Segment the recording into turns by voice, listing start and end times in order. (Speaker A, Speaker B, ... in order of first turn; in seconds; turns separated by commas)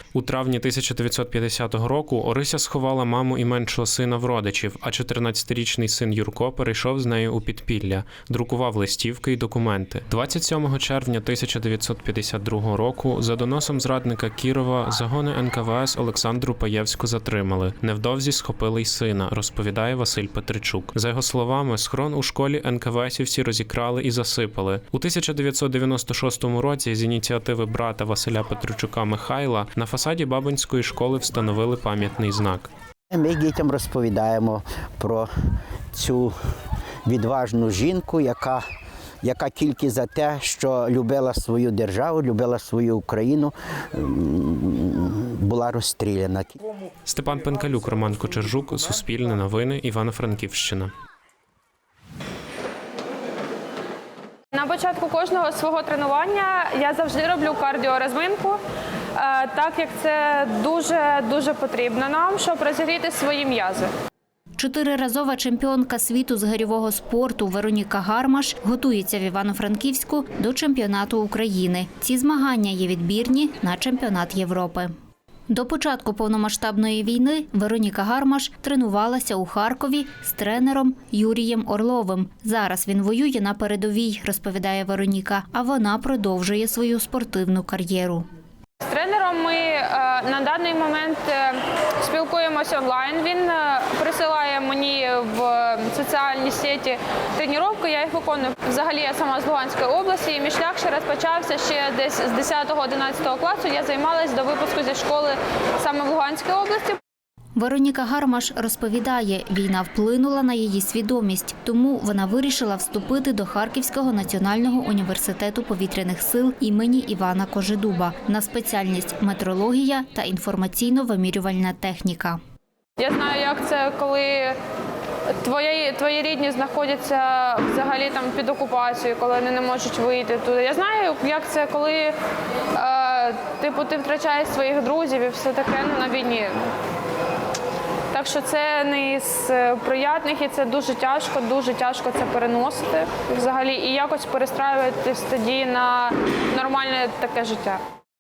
Speaker A: 0.1-32.7, Speaker B: 33.1-35.3, Speaker B: 35.9-36.3, Speaker B: 37.0-38.6, Speaker B: 39.2-46.5, Speaker A: 47.1-50.9, Speaker C: 54.5-58.6, Speaker C: 59.1-63.9, Speaker D: 64.5-74.9, Speaker D: 75.5-88.3, Speaker C: 88.8-107.0, Speaker D: 107.5-122.4, Speaker C: 123.0-124.5, Speaker C: 125.4-132.1, Speaker C: 132.7-136.6, Speaker C: 138.1-147.8